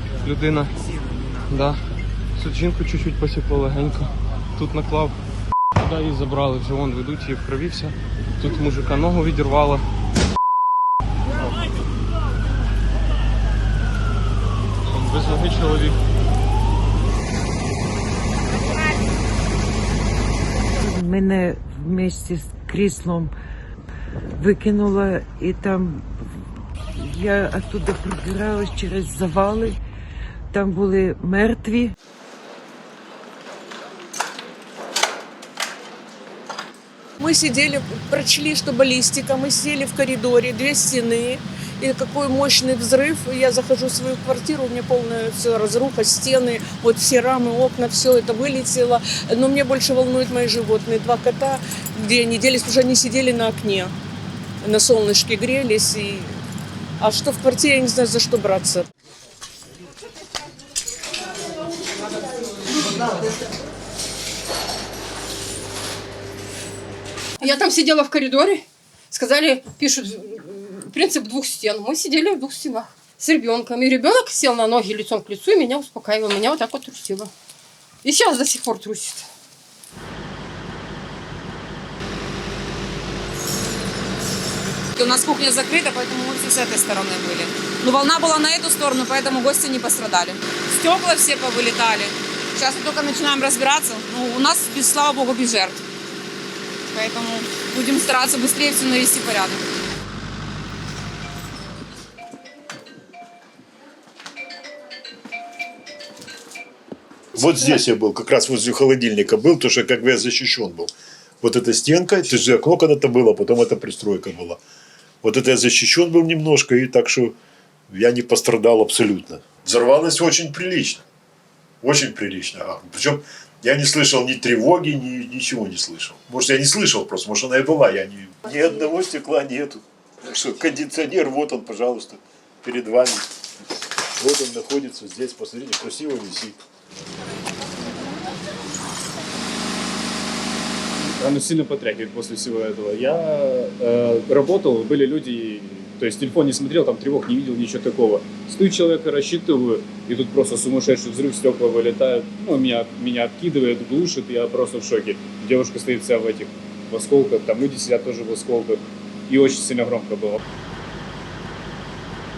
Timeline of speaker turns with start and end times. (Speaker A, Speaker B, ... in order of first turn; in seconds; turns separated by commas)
Speaker A: 0.2-0.7, Speaker A: 1.5-1.8, Speaker A: 2.4-5.2, Speaker A: 5.8-9.8, Speaker A: 14.9-15.9, Speaker B: 20.7-23.4, Speaker B: 24.4-26.4, Speaker B: 26.9-29.8, Speaker B: 30.5-31.9, Speaker C: 37.2-53.9, Speaker C: 54.6-56.4, Speaker C: 57.0-58.9, Speaker D: 67.4-77.3, Speaker D: 78.0-79.2, Speaker E: 85.0-95.8, Speaker E: 96.9-99.6, Speaker F: 107.4-114.6, Speaker F: 115.2-117.3, Speaker F: 117.9-121.0, Speaker F: 121.8-133.3, Speaker F: 134.2-136.6, Speaker G: 141.0-160.4